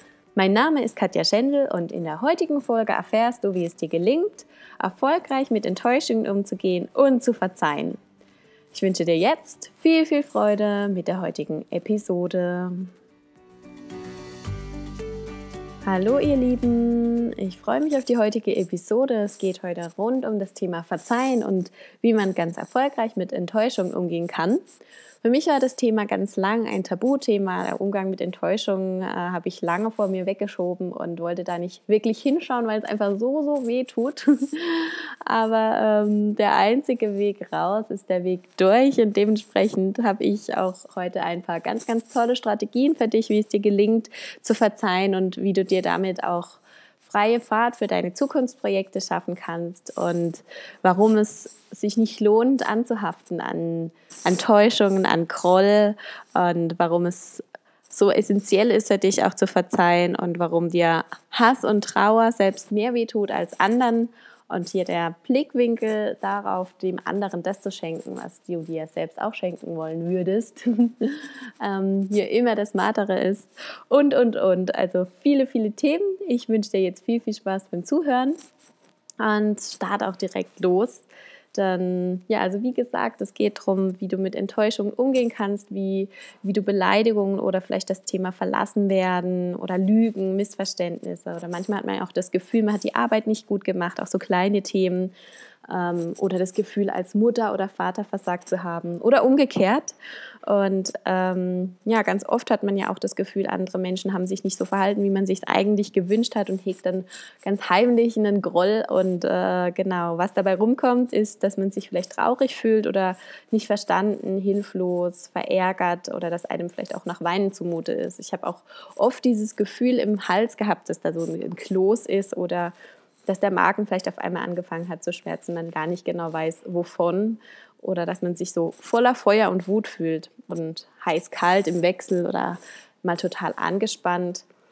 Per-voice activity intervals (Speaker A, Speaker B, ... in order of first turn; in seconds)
Speaker A: 0.3-8.0, 8.7-12.9, 15.8-24.6, 25.2-78.4, 79.2-95.1, 95.7-100.0, 100.5-122.8, 123.3-134.5